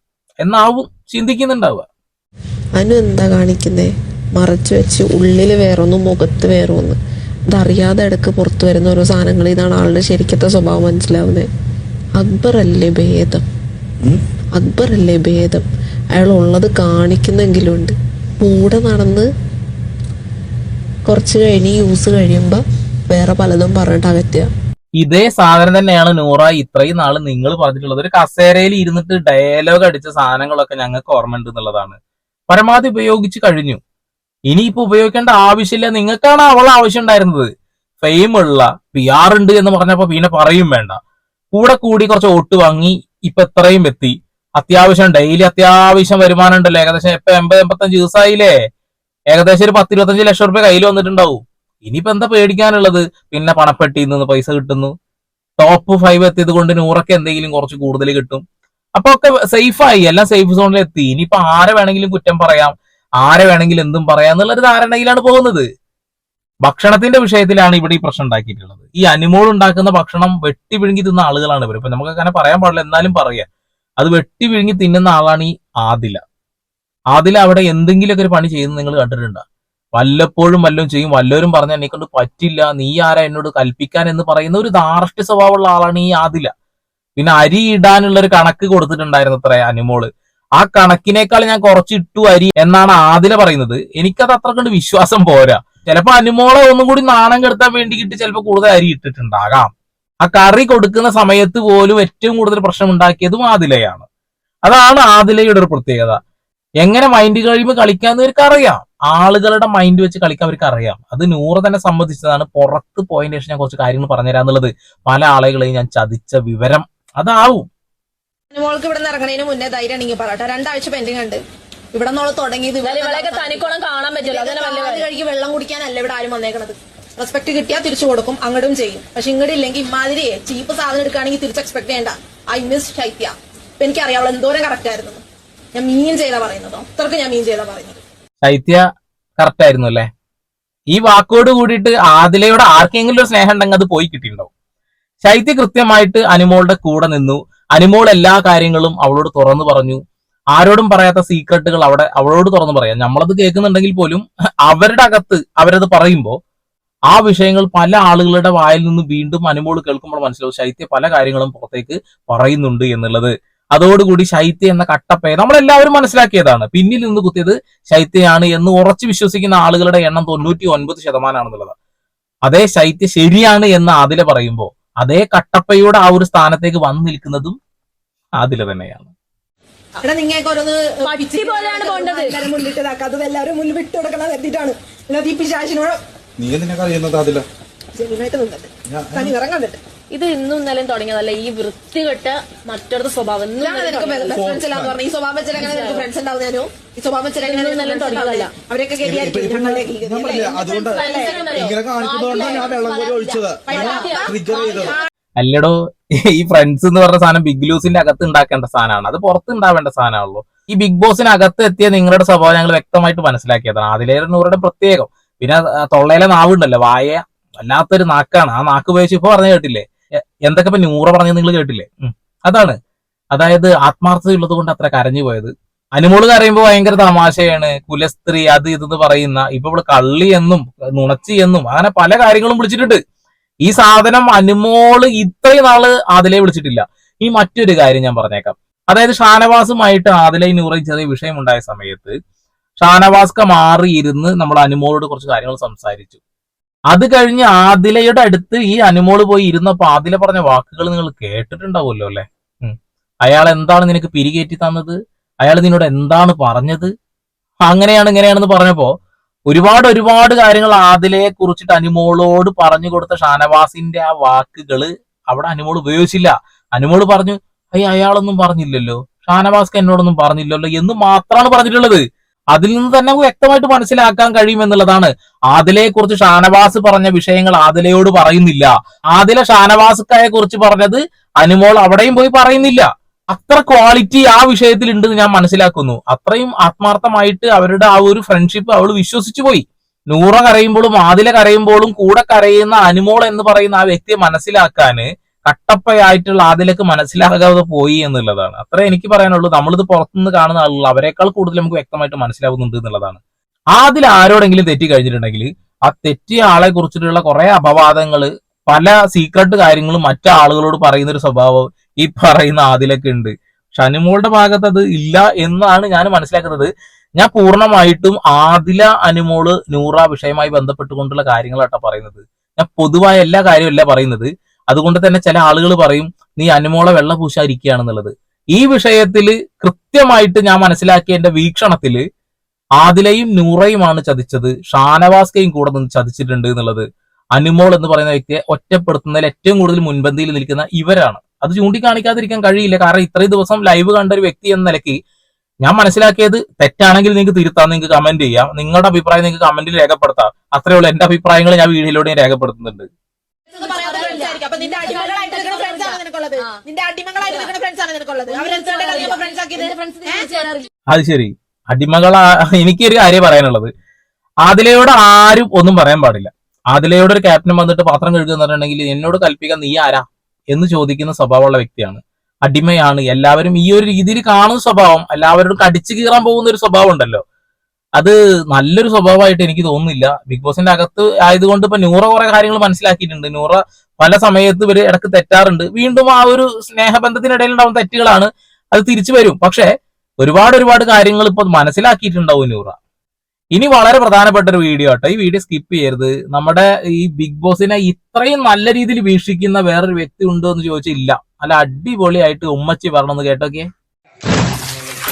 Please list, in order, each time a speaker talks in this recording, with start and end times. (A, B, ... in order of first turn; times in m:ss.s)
0:00.4-0:01.8 A
0:02.8-0:07.0 B
0:07.5-0:11.5 B
0:12.2-0:13.4 B
0:14.6-0:19.3 B
0:21.1-0:24.5 B
0:25.0-0:32.0 A
0:32.5-0:33.8 A
0:34.5-0:37.5 A
0:38.0-0:41.0 A
0:41.5-0:48.5 A
0:49.3-0:54.9 A
0:55.6-0:58.4 A
0:59.0-1:05.6 A
1:06.6-1:13.4 A
1:14.0-1:16.2 A
1:17.1-1:19.4 A
1:20.0-1:26.5 A
1:27.2-1:39.7 A
1:40.2-1:44.0 A
1:44.6-1:46.2 A
1:46.8-1:57.7 A
1:58.5-2:18.0 C
2:02.8-2:05.1 D
2:18.4-2:18.8 A
2:19.4-2:20.1 A
2:20.9-2:24.5 A
2:25.2-2:30.0 A
2:30.6-2:36.3 A
2:37.1-2:51.7 A
2:52.5-2:57.6 A
2:58.4-2:59.1 A
3:00.0-3:06.0 C
3:01.0-3:02.5 D
3:06.4-3:07.4 E
3:07.9-3:09.8 C
3:08.9-3:09.3 E
3:10.1-3:14.4 D
3:13.6-3:25.1 C
3:14.4-3:14.9 E
3:15.6-3:16.1 D
3:17.4-3:18.6 D
3:19.0-3:21.0 E
3:20.6-3:22.4 D
3:21.6-3:25.0 E
3:23.9-3:24.4 D
3:25.4-3:39.9 A
3:40.4-3:42.8 A
3:43.3-3:53.0 A
3:53.6-4:02.1 A
4:02.8-4:06.2 A
4:06.9-4:16.9 A
4:17.6-4:18.9 A
4:19.5-4:32.0 A
4:32.5-5:03.2 A
5:03.7-5:32.0 A
5:32.8-5:45.0 A
5:45.6-5:52.9 A
5:53.5-6:00.7 C
5:53.6-5:56.6 D
5:58.3-6:00.6 D
6:00.9-6:03.7 A
6:04.4-6:17.2 A
6:18.0-6:29.6 A
6:30.2-6:32.8 A
6:33.5-6:43.7 A